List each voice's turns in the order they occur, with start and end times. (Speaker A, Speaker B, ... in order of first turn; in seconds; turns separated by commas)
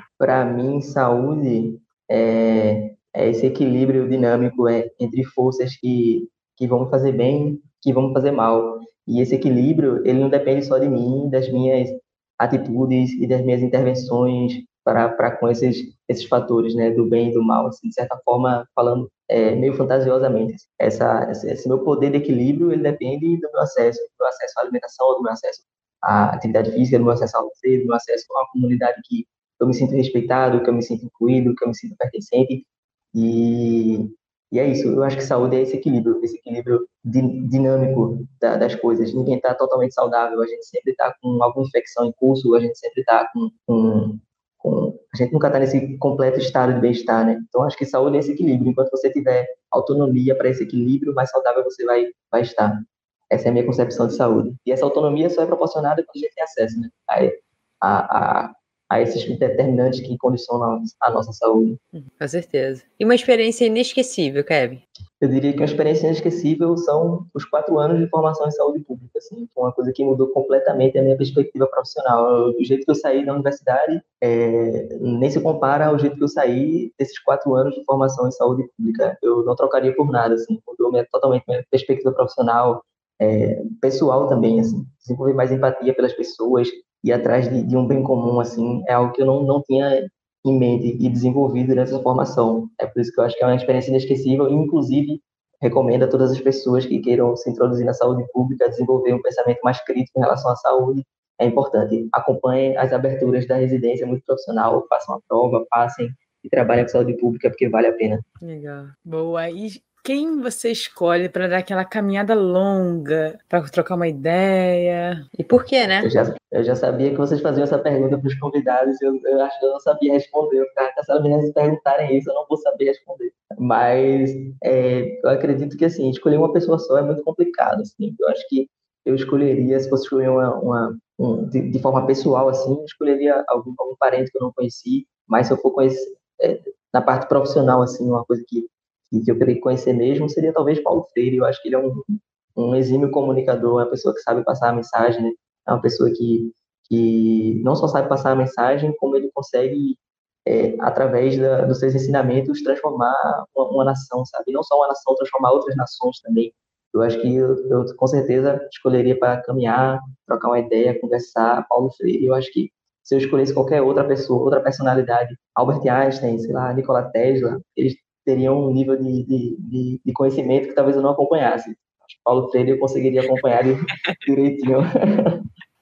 Speaker A: 0.2-61.8, Speaker B: 61.9-64.8, Speaker A: 65.2-108.2, Speaker B: 108.4-108.9, Speaker C: 109.0-115.2, Speaker B: 115.4-116.1, Speaker A: 116.0-175.4